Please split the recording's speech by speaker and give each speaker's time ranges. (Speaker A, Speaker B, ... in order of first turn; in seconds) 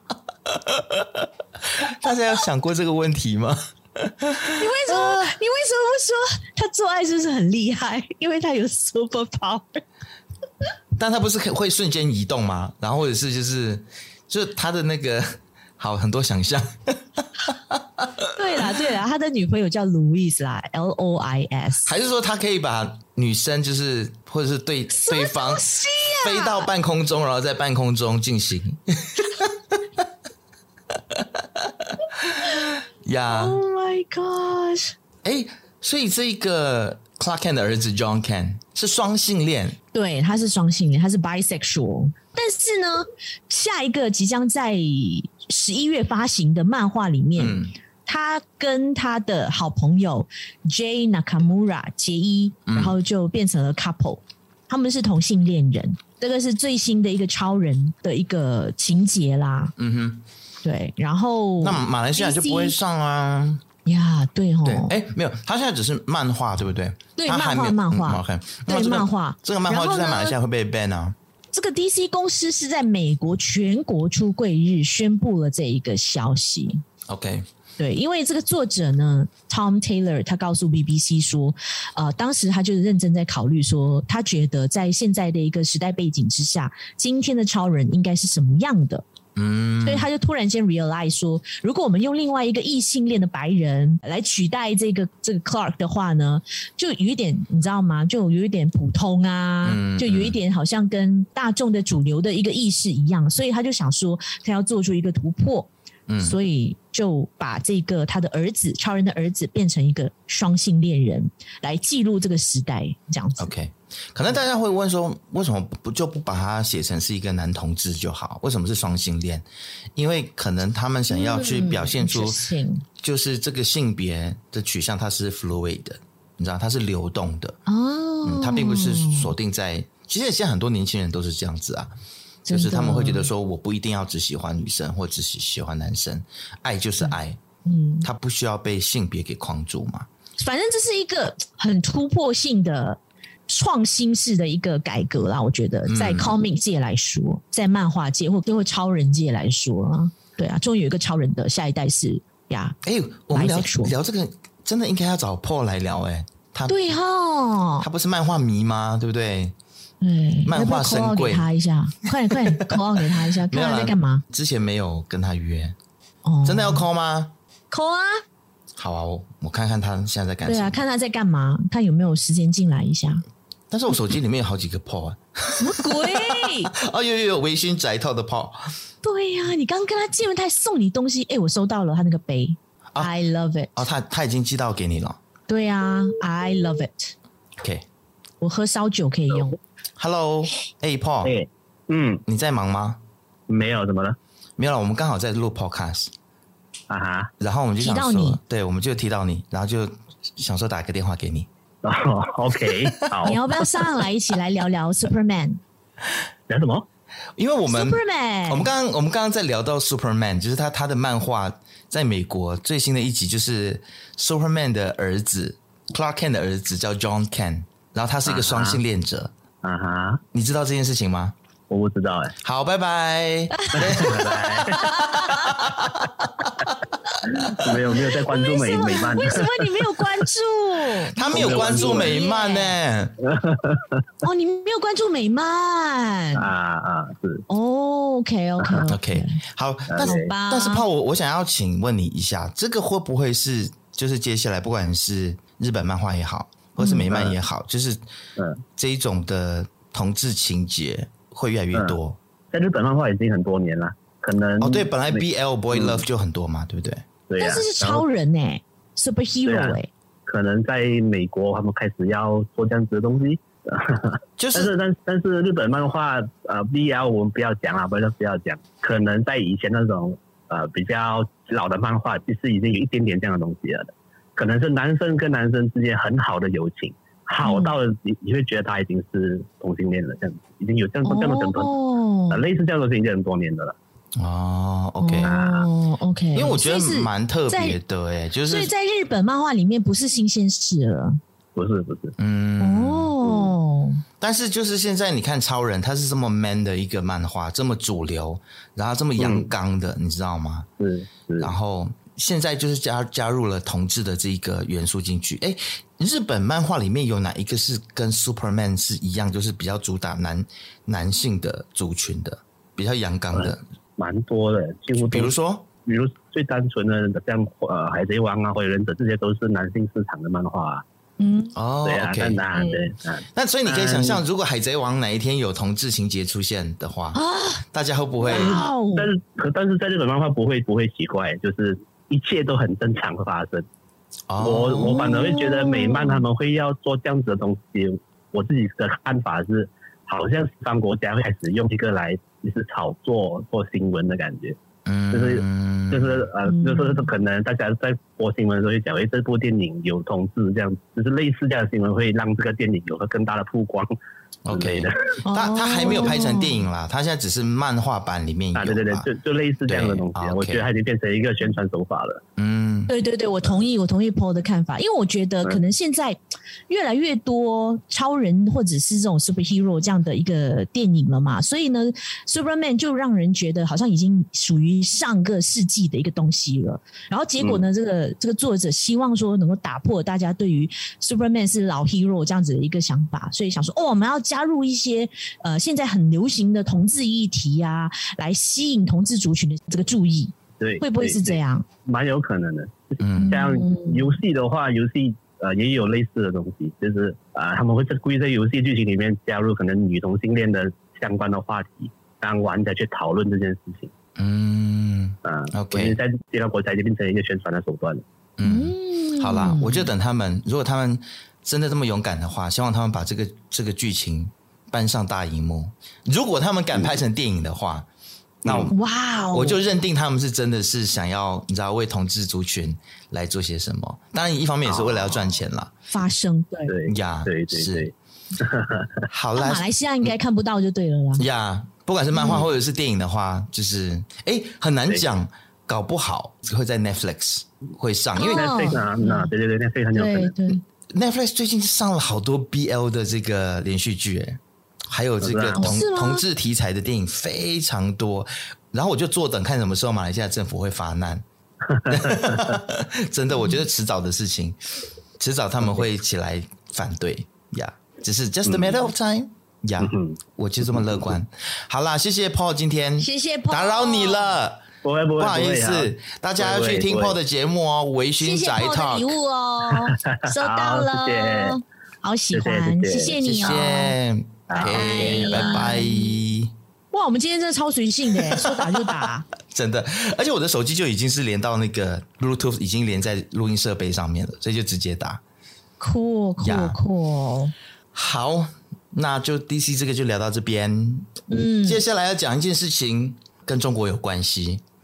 Speaker A: 0.5-5.4, 11.0-18.6, 21.9-25.7, 26.2-29.6, 31.1-33.6, 35.2-39.8, 47.4-47.7, 52.7-53.0, 59.8-60.2, 61.6-63.6, 64.6-71.2, 77.1-77.5, 89.4-90.1, 99.6-100.4, 106.1-106.4, 113.4-122.4, 123.0-127.6, 128.2-131.9, 132.5-137.4, 138.0-140.1, 145.9-146.4, 152.8-156.8, 157.8-159.6, 160.5-161.5, 162.3-165.8, 166.4-167.3, 168.8-170.8, 173.7-178.7, 183.8-185.2, 187.6-187.8, 190.0-191.3, 192.3-193.0, 194.6-196.1, 197.4-201.5, 207.4-219.3, 220.3-221.3, 222.4-226.5, 231.1-233.2, 238.9-248.0, 248.8-252.2, 254.6-257.1, 264.4-264.7, 284.2-285.3, 286.4-288.7, 292.2-293.2, 294.2-300.7, 301.4-313.6, 315.1-315.7, 321.6-322.4, 323.4-327.2, 327.7-328.6, 334.3-335.1, 344.9-346.3, 354.4-359.1, 359.7-360.7, 362.4-362.9, 393.0-393.4, 404.2-406.0, 408.4-417.9, 418.4-418.8, 419.3-425.7, 426.9-427.9, 429.1-430.1, 431.2-438.5, 440.9-451.2, 451.9-454.6, 455.2-464.7, 465.2-469.1, 473.2-476.5, 478.3-485.2, 486.4-486.8, 487.9-494.6
Speaker B: 4.6-9.8, 18.4-21.9, 24.9-26.7, 33.3-34.9, 39.9-59.7, 60.6-62.8, 63.9-65.0, 67.2-70.3, 71.5-76.8, 77.8-89.0, 89.8-113.5, 121.1-122.8, 127.7-129.3, 132.5-133.3, 137.7-138.1, 140.4-152.8, 153.3-153.9, 156.7-157.9, 160.0-164.2, 166.2-166.8, 167.7-168.2, 170.4-173.2, 175.6-176.7, 179.0-183.8, 185.5-187.1, 188.4-189.6, 197.8-198.4, 203.2-205.6, 207.7-208.7, 223.6-225.6, 228.2-232.8, 234.2-236.5, 237.5-239.4, 240.0-240.9, 246.8-247.1, 257.4-259.9, 277.4-277.8, 281.1-282.4, 285.0-287.8, 288.5-291.2, 292.6-294.0, 321.2-321.6, 322.5-322.9, 327.1-327.6, 328.2-329.1, 334.9-336.2, 346.5-347.1, 355.2-356.7, 362.9-366.2, 366.7-391.6, 393.2-394.1, 408.4-409.9, 418.7-419.6, 425.9-426.7, 429.4-431.2, 432.1-432.5, 438.2-439.3, 439.9-440.6, 445.6-446.2, 463.0-464.4, 468.2-473.9, 474.6-476.2, 476.9-479.3, 485.8-487.5, 491.3-491.8
Speaker C: 191.2-192.2, 193.5-194.2, 196.9-197.3, 201.8-203.4, 206.5-206.8, 218.3-218.8, 219.6-220.2, 221.7-222.3, 223.8-224.8, 227.2-229.9, 231.2-232.2, 233.2-234.0, 236.4-237.5, 239.9-240.3, 247.1-247.4, 248.4-248.6, 252.5-256.0, 257.3-258.0, 259.5-281.8, 282.3-283.8, 285.2-285.7, 291.6-292.2, 293.2-293.5, 299.2-299.5, 300.8-301.5, 313.3-315.3, 315.9-320.8, 321.9-324.2, 328.3-333.7, 334.4-344.6, 345.1-353.9, 354.5-355.2, 358.6-362.2, 390.6-403.9, 405.2-408.0, 418.4-418.7, 424.7-425.4, 426.7-429.1, 438.2-440.4, 445.2-445.7, 451.7-452.4, 458.5-458.8, 459.8-460.2, 460.7-461.2, 464.8-467.2, 469.7-471.6, 472.3-473.2, 474.5-475.7